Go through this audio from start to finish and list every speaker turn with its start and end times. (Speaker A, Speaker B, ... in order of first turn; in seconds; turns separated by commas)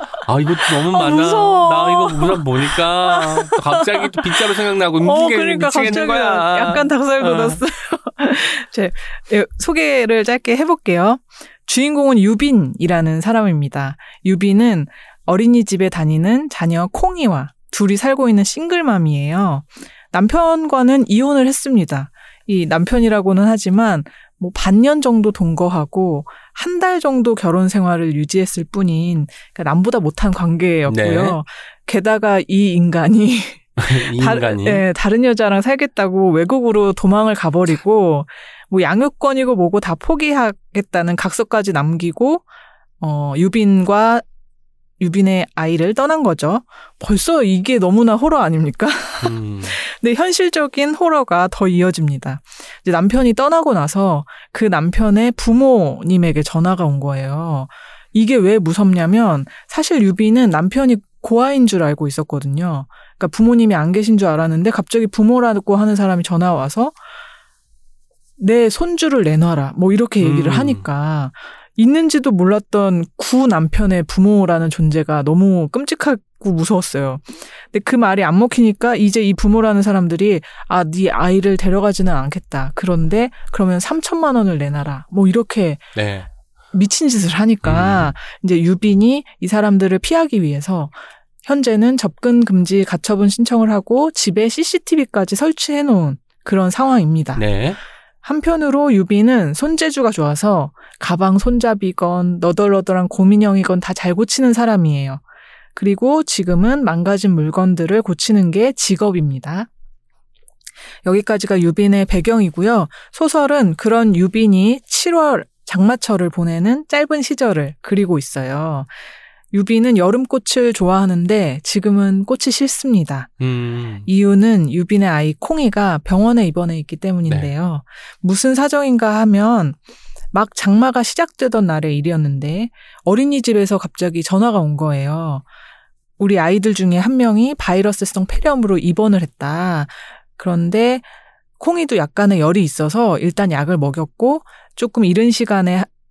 Speaker A: 0.3-7.6, Speaker B: 0.6-42.5, Speaker A: 30.9-31.4, Speaker A: 33.8-34.9, Speaker B: 43.0-44.2, Speaker B: 45.0-67.0, Speaker A: 49.2-49.8, Speaker B: 68.4-86.0, Speaker A: 70.2-70.9, Speaker A: 86.0-86.3, Speaker B: 86.7-97.6, Speaker A: 87.6-88.1, Speaker A: 97.3-97.8, Speaker B: 98.2-105.2, Speaker B: 105.8-109.7, Speaker B: 111.0-118.9, Speaker B: 119.5-123.4, Speaker A: 123.4-124.1, Speaker B: 124.0-129.8, Speaker A: 127.2-127.5, Speaker B: 130.3-135.4, Speaker B: 136.2-141.0, Speaker B: 141.6-145.9